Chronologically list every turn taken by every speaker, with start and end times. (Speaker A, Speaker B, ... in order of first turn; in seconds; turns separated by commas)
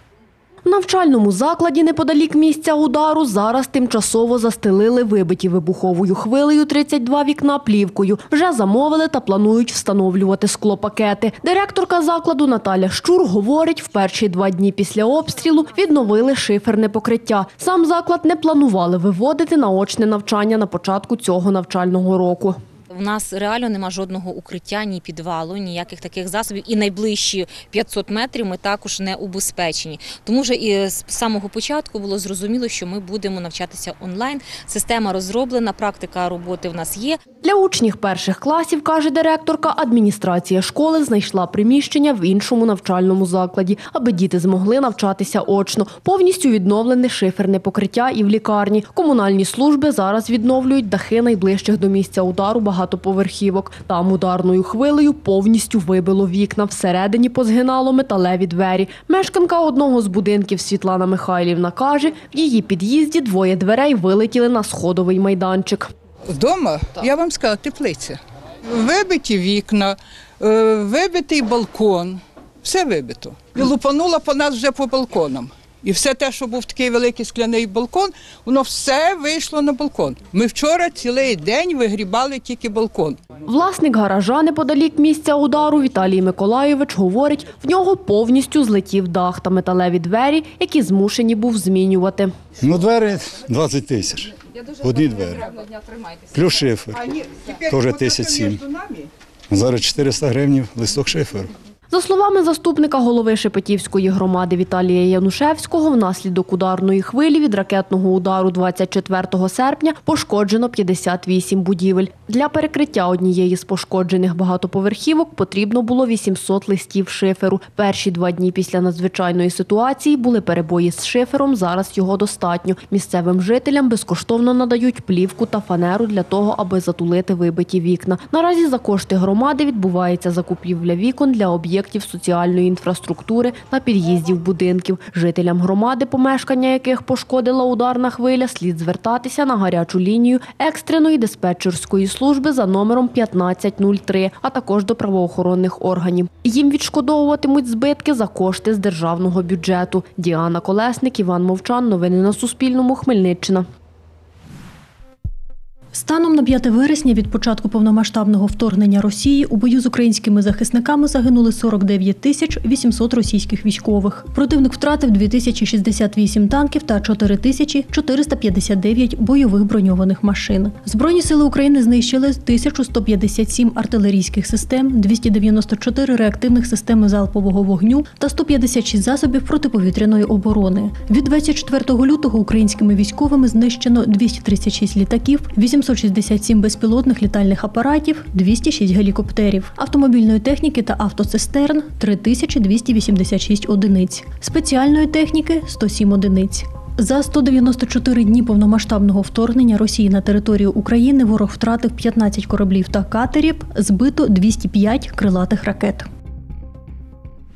Speaker A: 0.6-22.6, Speaker B: 22.9-37.2, Speaker A: 37.4-65.9, Speaker C: 66.3-83.2, Speaker A: 83.5-92.3, Speaker D: 92.6-94.3, Speaker D: 94.8-95.4, Speaker D: 96.3-97.0, Speaker C: 97.0-99.1, Speaker D: 97.7-98.6, Speaker D: 99.5-101.5, Speaker A: 101.9-153.7, Speaker E: 155.9-206.1